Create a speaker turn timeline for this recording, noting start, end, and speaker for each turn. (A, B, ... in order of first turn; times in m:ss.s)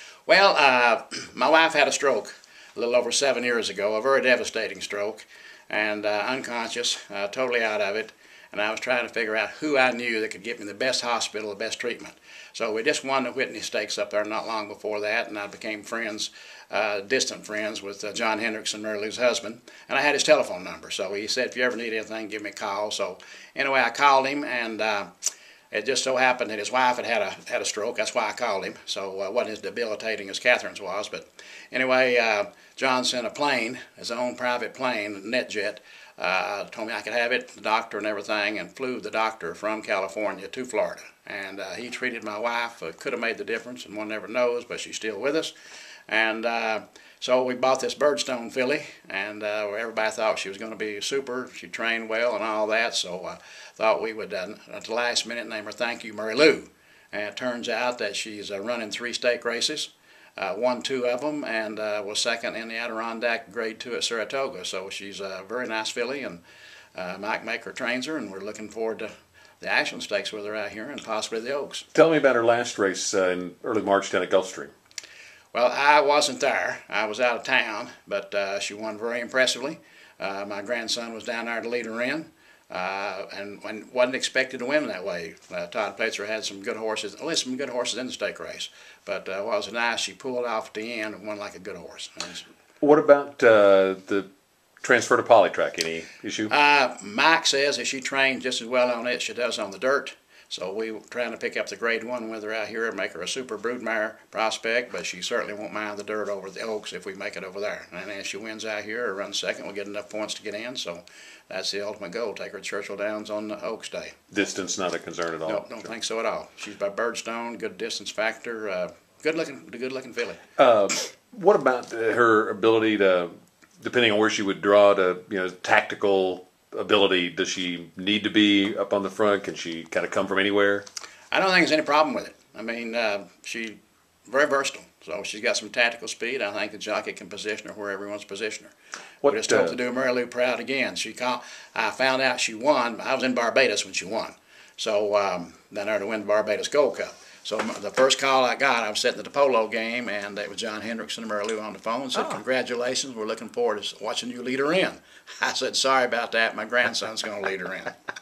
0:00.3-0:25.1 A
0:25.7-0:45.5 A
0:46.1-1:06.4 A
1:06.9-1:11.8 A
1:11.9-1:14.7 B
1:15.5-1:32.4 A
1:32.8-1:34.3 B
1:34.8-1:36.5 B
1:36.5-1:54.2 A
1:54.3-1:55.9 B
1:55.5-2:00.4 A
2:00.6-2:10.9 B
2:11.3-2:37.9 A
2:19.2-2:19.8 B